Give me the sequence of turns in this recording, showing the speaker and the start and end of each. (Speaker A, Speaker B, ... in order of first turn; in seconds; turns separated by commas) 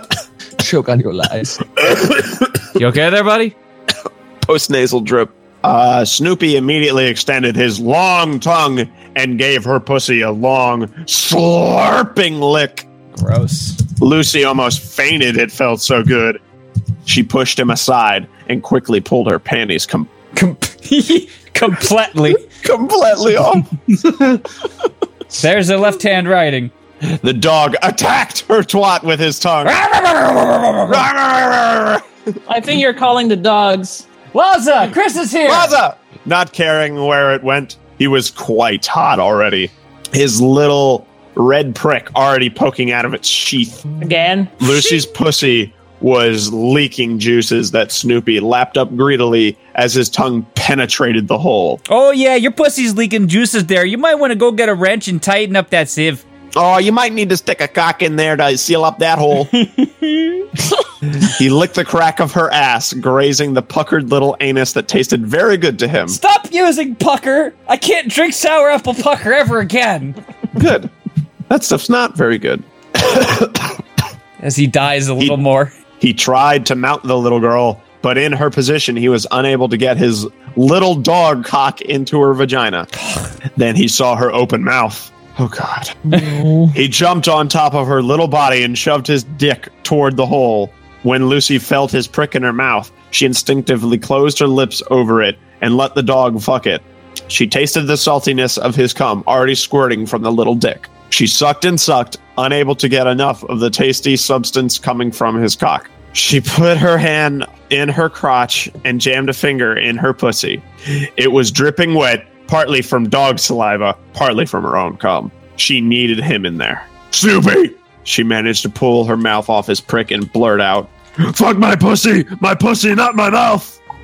Speaker A: 0.6-1.9, Speaker B: 2.8-3.5, Speaker C: 4.4-12.9, Speaker B: 13.2-13.8, Speaker C: 14.0-16.4, Speaker C: 17.1-20.1, Speaker B: 20.4-22.4, Speaker C: 22.6-23.6, Speaker B: 25.4-26.7, Speaker C: 27.2-29.8, Speaker B: 29.6-31.0, Speaker C: 30.9-32.0, Speaker D: 32.5-34.1, Speaker B: 34.3-35.8, Speaker C: 35.5-43.9, Speaker D: 44.0-45.0, Speaker C: 44.6-51.8, Speaker B: 51.9-56.2, Speaker C: 56.5-59.5, Speaker B: 59.5-60.5, Speaker C: 61.2-66.2, Speaker B: 66.1-70.2, Speaker C: 70.6-70.9, Speaker C: 71.5-73.7, Speaker B: 74.4-75.7, Speaker C: 76.0-82.9, Speaker C: 83.6-86.1, Speaker A: 86.1-86.7, Speaker C: 86.7-110.6, Speaker C: 111.2-120.9, Speaker E: 121.3-123.8